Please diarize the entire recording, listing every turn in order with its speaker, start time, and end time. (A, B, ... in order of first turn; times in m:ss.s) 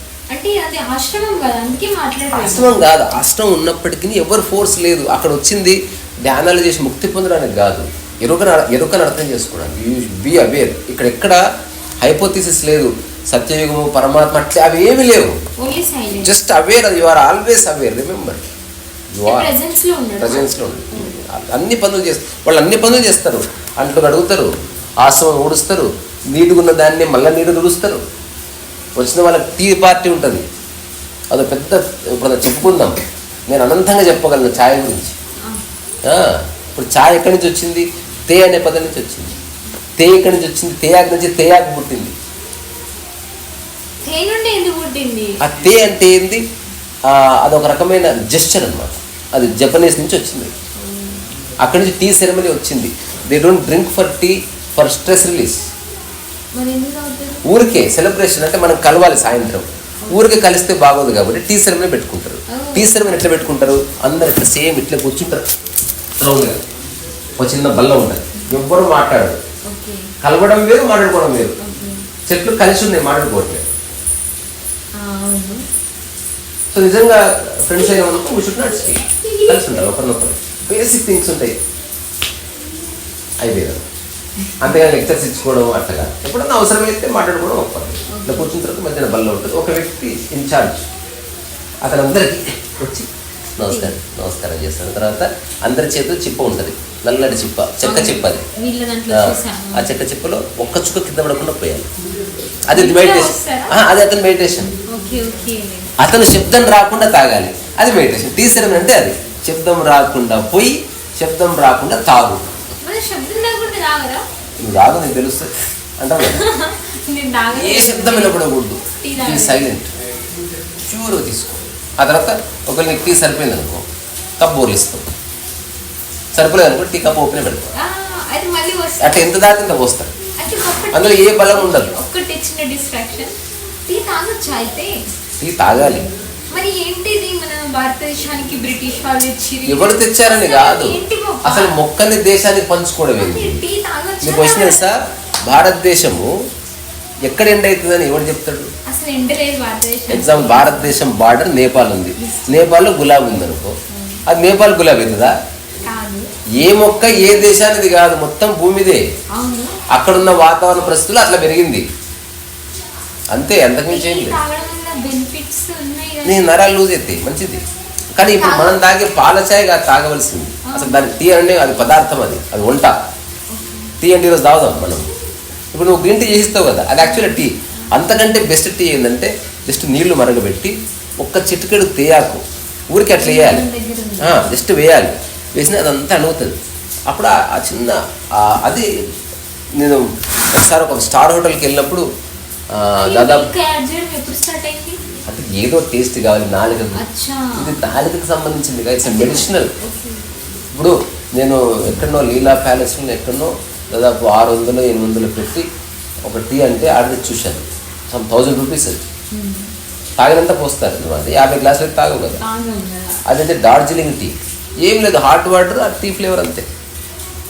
0:00.3-0:02.8 A
0:02.3-0:11.4 B
0:12.0-0:15.4 B
0:15.6-0:16.4 A
0:16.2-0:18.4 B
0:19.1-0:19.5 B
0:19.3-0:21.1 A
0:20.2-0:28.0 B
0:29.0-0:30.5 B
0:31.3-0:35.2 B
0:36.0-0:39.4 B
0:40.0-0:42.2 B
0:44.0-0:45.4 A
0:45.4-0:46.4 B
0:47.0-0:50.5 B
0:50.8-0:51.3 A
0:51.6-0:55.7 B
0:56.5-0:57.4 A
0:57.4-1:05.4 B
1:00.0-1:00.4 A
1:02.5-1:03.0 A
1:06.2-1:06.6 B
1:07.4-1:09.4 B
1:09.6-1:10.1 A
1:10.2-1:11.6 B
1:11.6-1:12.1 A
1:12.3-1:13.6 B
1:14.9-1:15.6 A
1:16.7-1:21.6 B
1:19.1-1:19.7 A
1:23.4-1:23.8 B
1:24.4-1:24.9 A
1:24.6-1:30.9 B
1:28.1-1:28.5 A
1:31.8-1:38.5 B
1:37.8-1:40.0 A
1:39.1-1:41.9 B
1:42.7-1:44.8 B
1:42.7-1:43.8 A
1:44.9-1:45.9 A
1:46.0-1:52.4 B
1:52.8-1:54.3 A
1:54.6-1:56.4 B
1:56.2-1:58.4 A
1:57.5-1:59.9 B
1:59.0-1:59.6 A
2:00.8-2:03.9 B
2:04.4-2:05.0 B
2:06.3-2:07.7 B
2:07.8-2:09.4 A
2:09.0-2:10.1 B
2:10.4-2:13.4 A
2:10.9-2:11.9 B
2:13.9-2:15.1 A
2:15.4-2:16.1 B
2:16.5-2:21.8 A
2:19.7-2:23.6 B
2:23.2-2:24.9 A
2:24.2-2:26.4 B
2:27.2-2:28.7 B
2:28.9-2:31.0 A
2:30.1-2:35.3 B
2:32.2-2:32.6 A
2:33.9-2:34.2 A
2:35.8-2:36.3 A
2:36.6-2:39.0 B
2:37.1-2:37.5 A
2:39.3-2:39.8 A
2:39.9-2:41.8 B
2:43.3-2:44.4 B
2:43.9-2:46.5 A
2:46.2-2:47.6 B
2:48.2-2:53.0 B
2:48.3-2:48.9 A
2:50.6-2:51.1 A
2:53.5-2:54.0 A
2:54.0-2:55.1 B
2:55.7-3:03.6 B
2:57.0-2:57.8 A
3:03.1-3:04.5 A
3:04.2-3:06.6 B
3:07.1-3:09.0 B
3:09.8-3:12.1 B
3:12.7-3:13.5 B
3:13.0-3:15.0 A
3:15.3-3:17.0 B
3:17.0-3:17.8 A
3:17.6-3:19.7 B
3:19.1-3:20.4 A
3:20.7-3:25.7 B
3:26.2-3:29.0 B
3:29.3-3:29.7 A
3:30.2-3:32.4 B
3:32.4-3:33.2 A
3:33.3-3:36.7 B